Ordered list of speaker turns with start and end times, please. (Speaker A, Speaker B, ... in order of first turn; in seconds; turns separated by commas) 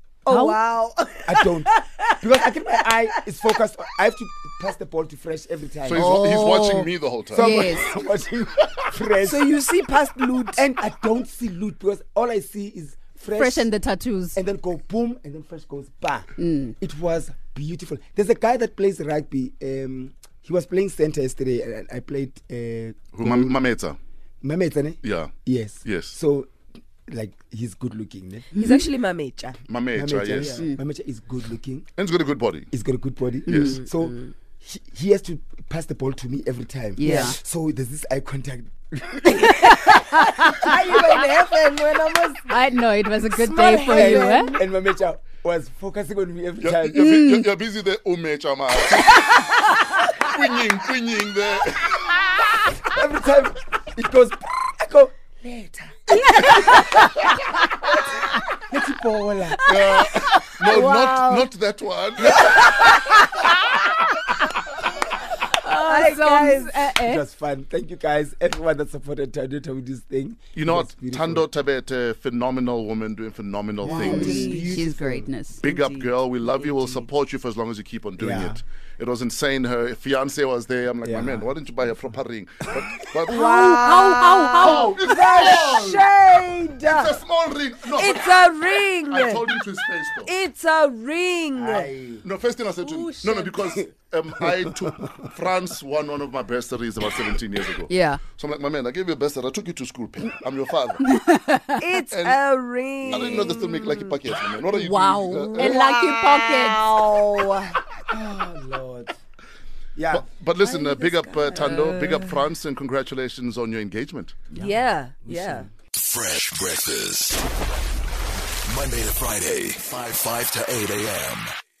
Speaker A: 0.2-2.2, Speaker B: 0.3-0.6, Speaker C: 1.2-6.2, Speaker D: 5.8-7.7, Speaker A: 6.0-6.8, Speaker C: 7.3-9.5, Speaker B: 7.4-7.8, Speaker A: 9.2-10.6, Speaker C: 10.6-13.7, Speaker B: 13.3-14.4, Speaker C: 14.3-23.6, Speaker B: 16.4-16.7, Speaker D: 23.1-24.0, Speaker C: 24.4-26.5, Speaker D: 25.0-25.3, Speaker D: 25.8-26.1, Speaker C: 27.1-28.5, Speaker A: 28.5-29.6, Speaker D: 29.7-30.7, Speaker C: 29.9-31.9, Speaker A: 30.4-30.6, Speaker D: 32.0-32.7, Speaker C: 32.7-41.2, Speaker D: 33.5-33.8, Speaker A: 33.6-34.3, Speaker B: 37.0-37.3, Speaker A: 39.6-42.5, Speaker B: 42.5-44.5, Speaker A: 43.3-44.6, Speaker C: 43.8-47.1, Speaker D: 46.6-52.5, Speaker B: 47.0-47.4, Speaker C: 52.9-56.9, Speaker A: 56.1-57.2, Speaker C: 58.5-60.0, Speaker D: 59.6-63.2, Speaker A: 60.6-61.5, Speaker A: 62.4-63.3, Speaker A: 65.6-66.9, Speaker B: 65.6-67.2, Speaker C: 66.9-71.5, Speaker D: 70.5-74.6, Speaker C: 73.8-75.3, Speaker A: 73.9-74.8, Speaker E: 74.0-74.5, Speaker B: 74.1-75.7, Speaker D: 75.6-83.8, Speaker C: 78.2-78.6, Speaker C: 81.0-82.0, Speaker C: 82.8-85.6, Speaker A: 83.3-87.1, Speaker B: 83.5-84.7, Speaker D: 84.6-86.1, Speaker D: 86.8-90.3, Speaker A: 87.9-89.4, Speaker A: 90.2-91.9, Speaker C: 91.6-92.2, Speaker D: 92.2-101.1, Speaker B: 93.0-93.5, Speaker B: 97.9-98.2, Speaker B: 101.0-101.8, Speaker A: 101.8-104.2, Speaker D: 102.1-102.4, Speaker D: 103.0-105.9, Speaker B: 104.7-106.0, Speaker A: 105.3-107.8, Speaker E: 106.0-106.8, Speaker C: 108.1-109.1, Speaker C: 110.0-110.2, Speaker D: 110.1-114.4, Speaker A: 110.6-112.5, Speaker A: 114.6-115.7, Speaker C: 115.2-115.7, Speaker E: 115.9-117.4, Speaker E: 118.7-121.5